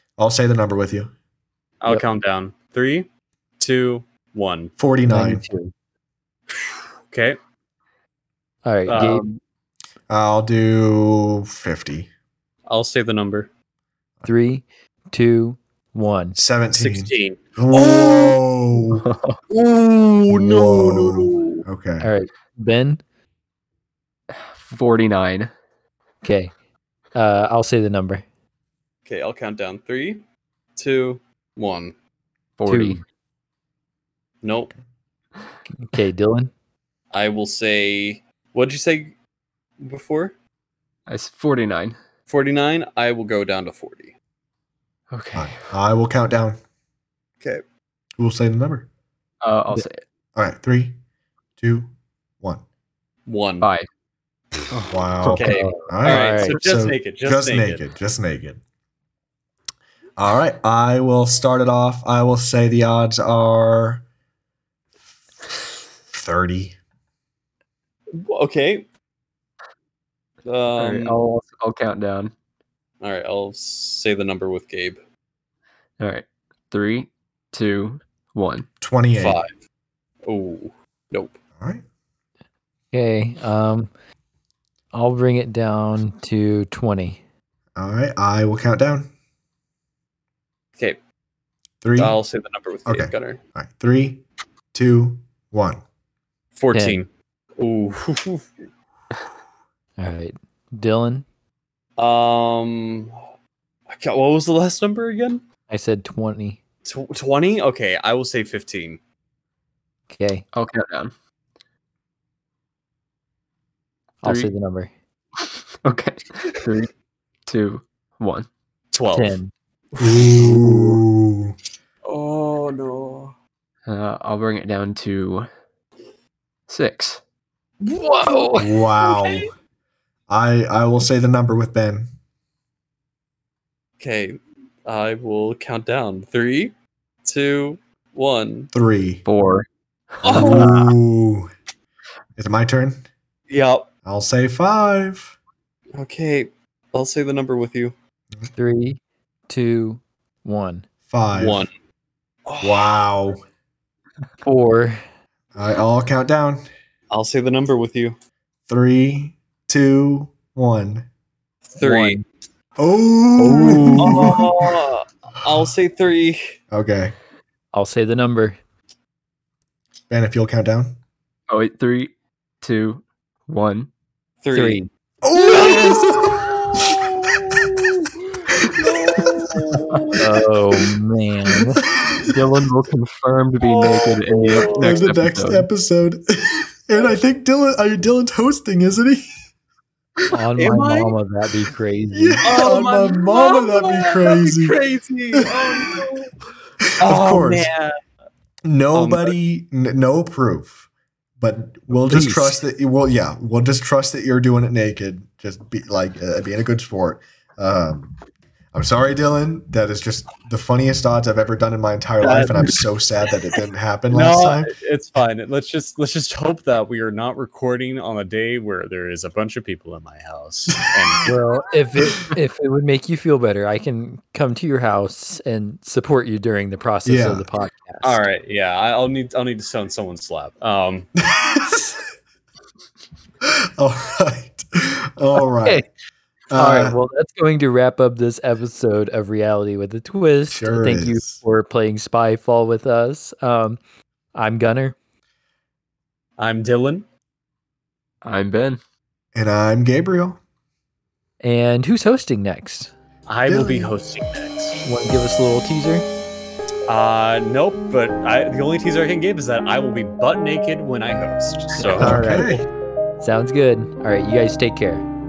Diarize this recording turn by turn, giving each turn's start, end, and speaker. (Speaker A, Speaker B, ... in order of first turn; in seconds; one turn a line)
Speaker A: 0.2-1.1
Speaker B: 1.8-3.1
Speaker B: 3.6-4.7
Speaker A: 4.8-5.5
Speaker C: 5.0-5.7
Speaker B: 6.5-7.4
Speaker C: 8.6-9.2
Speaker B: 8.9-9.4
Speaker A: 10.1-12.1
Speaker B: 12.7-13.5
Speaker C: 14.2-16.4
Speaker A: 16.3-19.0
Speaker B: 16.7-18.0
Speaker D: 18.9-19.4
Speaker B: 19.5-19.9
Speaker A: 20.3-22.1
Speaker B: 21.2-21.5
Speaker C: 22.0-23.0
Speaker D: 24.3-25.5
Speaker C: 26.2-26.5
Speaker C: 27.1-28.2
Speaker B: 29.1-30.2
Speaker B: 30.8-31.9
Speaker D: 32.6-33.0
Speaker C: 32.7-33.0
Speaker B: 34.4-34.7
Speaker C: 35.8-36.5
Speaker B: 37.1-39.1
Speaker B: 39.8-40.3
Speaker D: 41.1-42.0
Speaker B: 42.3-44.1
Speaker D: 45.1-45.6
Speaker A: 45.3-46.6
Speaker A: 48.2-48.9
Speaker D: 49.4-50.0
Speaker A: 50.3-51.0
Speaker A: 51.6-52.6
Speaker B: 53.2-53.7
Speaker D: 53.6-53.9
Speaker D: 54.7-55.7
Speaker A: 54.9-58.6
Speaker B: 55.4-57.9
Speaker C: 55.4-56.6
Speaker A: 60.2-64.0
Speaker A: 66.1-66.8
Speaker B: 68.1-68.9
Speaker B: 70.4-71.2
Speaker D: 70.8-72.3
Speaker B: 73.0-75.0
Speaker D: 76.0-78.7
Speaker A: 78.8-79.4
Speaker B: 79.1-79.5
Speaker B: 80.2-81.4
Speaker A: 81.6-81.8
Speaker C: 82.9-83.9
Speaker C: 84.9-87.2
Speaker A: 87.8-89.1
Speaker A: 91.8-92.2
Speaker B: 92.0-93.4
Speaker A: 92.8-94.2
Speaker A: 94.7-95.8
Speaker B: 96.5-98.5
Speaker C: 96.7-97.0
Speaker C: 100.0-101.2
Speaker B: 102.0-103.3
Speaker B: 103.9-105.4
Speaker C: 105.7-106.6
Speaker B: 106.8-109.0
Speaker C: 110.1-110.4
Speaker D: 110.5-111.1
Speaker C: 114.2-114.9
Speaker D: 114.2-114.5
Speaker D: 115.8-116.9
Speaker D: 117.5-118.5
Speaker B: 118.9-119.4
Speaker C: 119.1-119.5
Speaker A: 120.0-121.6
Speaker C: 120.4-121.0
Speaker B: 122.1-123.3
Speaker D: 123.9-125.5
Speaker D: 126.7-127.2
Speaker C: 128.0-128.6
Speaker A: 128.6-129.5
Speaker A: 130.3-132.1
Speaker B: 134.0-138.7
Speaker A: 138.7-139.2
Speaker D: 139.2-139.7
Speaker D: 140.2-140.7
Speaker B: 140.2-140.9
Speaker A: 140.3-141.5
Speaker A: 142.4-143.0
Speaker B: 143.5-143.9
Speaker A: 144.0-145.3
Speaker B: 145.9-147.9
Speaker C: 148.5-150.8
Speaker A: 151.1-151.7
Speaker B: 151.3-151.7
Speaker B: 152.4-153.0
Speaker A: 152.6-153.4
Speaker C: 154.4-155.0
Speaker A: 155.6-156.7
Speaker B: 157.1-158.2
Speaker A: 158.7-161.1
Speaker B: 161.7-162.2
Speaker D: 161.8-162.2
Speaker A: 162.8-164.5
Speaker C: 163.4-164.4
Speaker B: 164.0-166.6
Speaker A: 166.7-167.1
Speaker C: 167.7-168.6
Speaker A: 170.1-170.9
Speaker D: 171.5-173.9
Speaker B: 174.4-174.8
Speaker C: 174.5-174.9
Speaker A: 175.2-176.9
Speaker B: 175.5-177.8
Speaker B: 178.6-180.5
Speaker C: 180.2-181.9
Speaker D: 182.2-185.7
Speaker B: 183.6-185.0
Speaker A: 184.7-189.3
Speaker C: 190.3-192.5
Speaker B: 190.6-191.1
Speaker A: 192.1-194.8
Speaker B: 192.4-196.3
Speaker A: 195.3-195.8
Speaker A: 196.8-197.7
Speaker B: 197.0-198.0
Speaker A: 198.6-200.8
Speaker B: 198.9-199.3
Speaker A: 201.4-208.1
Speaker C: 201.9-202.6
Speaker A: 208.7-214.7
Speaker B: 212.2-212.8
Speaker B: 214.1-221.4
Speaker C: 221.2-228.2
Speaker A: 227.0-227.4
Speaker B: 228.0-231.1
Speaker A: 231.2-232.0
Speaker A: 233.4-235.8
Speaker C: 235.4-235.9
Speaker A: 236.5-237.0
Speaker C: 236.5-243.8
Speaker A: 240.5-241.4
Speaker C: 244.3-244.9
Speaker B: 246.4-247.1
Speaker D: 248.2-248.8
Speaker A: 249.3-250.4
Speaker C: 251.4-252.9
Speaker B: 253.3-254.8
Speaker A: 253.4-253.9
Speaker C: 254.8-256.1
Speaker B: 256.9-262.6
Speaker C: 261.8-262.6
Speaker A: 262.0-262.7
Speaker C: 263.2-265.0